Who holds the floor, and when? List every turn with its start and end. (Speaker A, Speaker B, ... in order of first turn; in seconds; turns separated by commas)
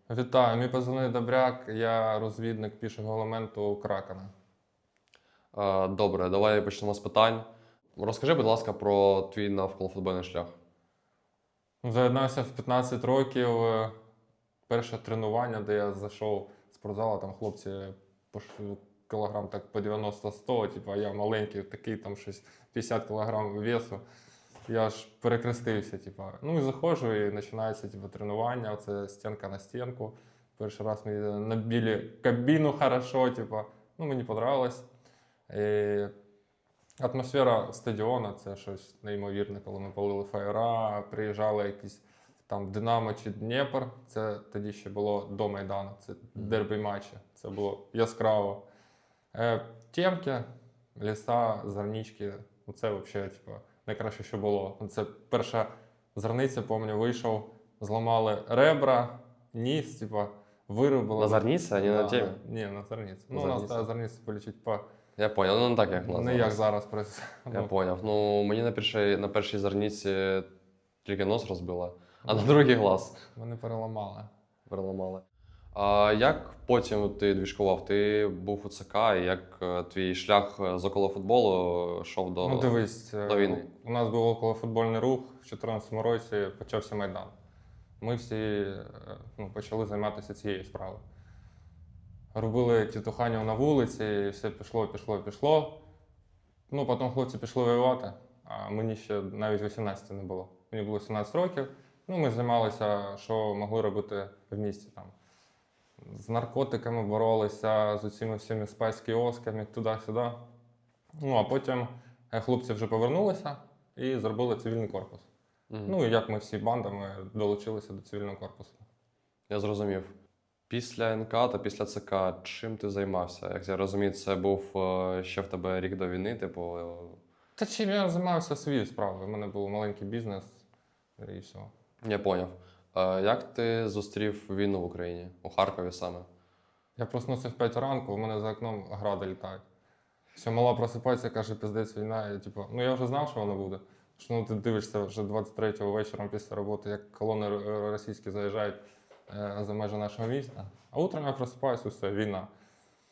Speaker A: 0.1-4.3, Speaker B: 5.5-10.6, Speaker A: 11.8-13.9, Speaker A: 14.7-24.0, Speaker A: 24.7-34.9, Speaker A: 35.5-36.1, Speaker A: 37.0-48.6, Speaker A: 49.3-64.8, Speaker B: 61.2-62.4, Speaker B: 63.3-63.8, Speaker B: 65.2-66.6, Speaker A: 65.9-67.7, Speaker B: 67.5-70.5, Speaker B: 71.0-73.2, Speaker A: 72.3-72.6, Speaker A: 73.3-74.3, Speaker B: 74.7-83.7, Speaker A: 82.4-87.3, Speaker A: 88.0-91.0, Speaker A: 92.3-95.8, Speaker A: 96.7-105.2, Speaker A: 106.0-110.4, Speaker A: 111.2-115.3, Speaker B: 115.7-116.0, Speaker A: 115.9-118.8, Speaker B: 119.5-120.1, Speaker B: 120.7-127.2, Speaker A: 127.6-130.6, Speaker A: 131.2-131.7, Speaker B: 132.0-136.3, Speaker A: 137.0-139.6, Speaker A: 140.3-152.5